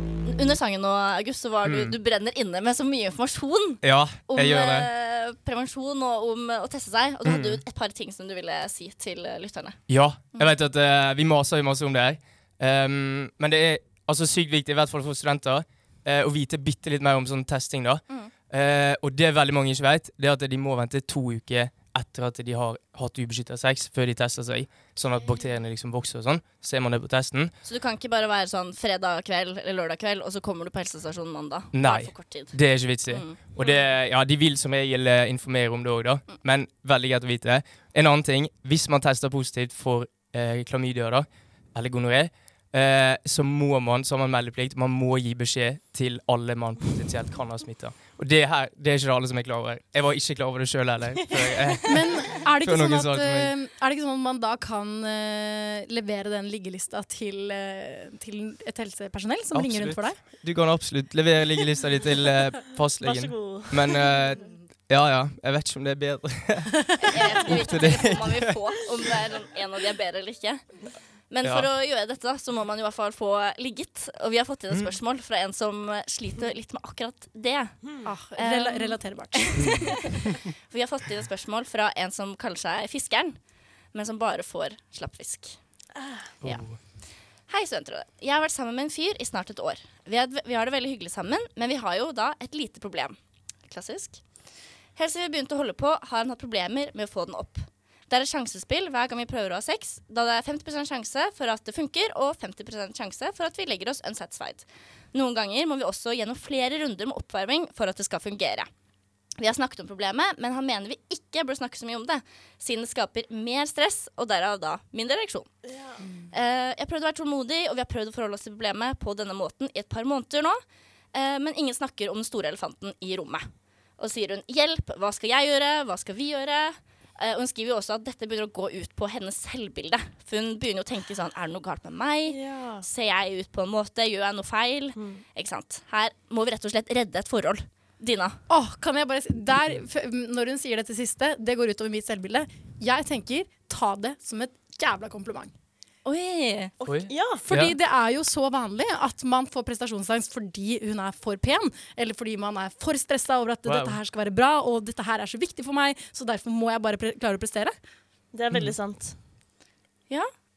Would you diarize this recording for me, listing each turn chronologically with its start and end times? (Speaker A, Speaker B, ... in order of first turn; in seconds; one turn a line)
Speaker A: 0.2-9.8
Speaker B: 1.6-2.0
Speaker B: 3.8-4.9
Speaker B: 7.2-7.6
Speaker B: 9.9-27.5
Speaker A: 27.6-33.7
Speaker B: 31.7-53.5
Speaker C: 51.9-60.2
Speaker B: 59.5-66.8
Speaker D: 63.0-64.3
Speaker A: 67.0-83.4
Speaker B: 67.4-68.5
Speaker B: 71.4-71.7
Speaker D: 77.8-78.1
Speaker C: 78.0-80.1
Speaker B: 79.6-79.9
Speaker A: 83.9-85.6
Speaker D: 86.0-86.3
Speaker B: 86.4-86.8
Speaker A: 86.4-86.8
Speaker A: 87.5-94.2
Speaker A: 95.0-108.7
Speaker A: 109.4-115.5
Speaker D: 115.7-116.0
Speaker A: 116.3-120.6
Speaker A: 121.1-123.5
Speaker A: 124.0-138.4
Speaker D: 132.3-132.9
Speaker D: 135.0-135.2
Speaker C: 138.5-145.5
Speaker A: 146.1-146.7
Speaker D: 146.8-147.4
Speaker B: 146.8-147.8
Speaker C: 147.4-157.8
Speaker B: 153.7-154.0
Speaker D: 158.3-159.2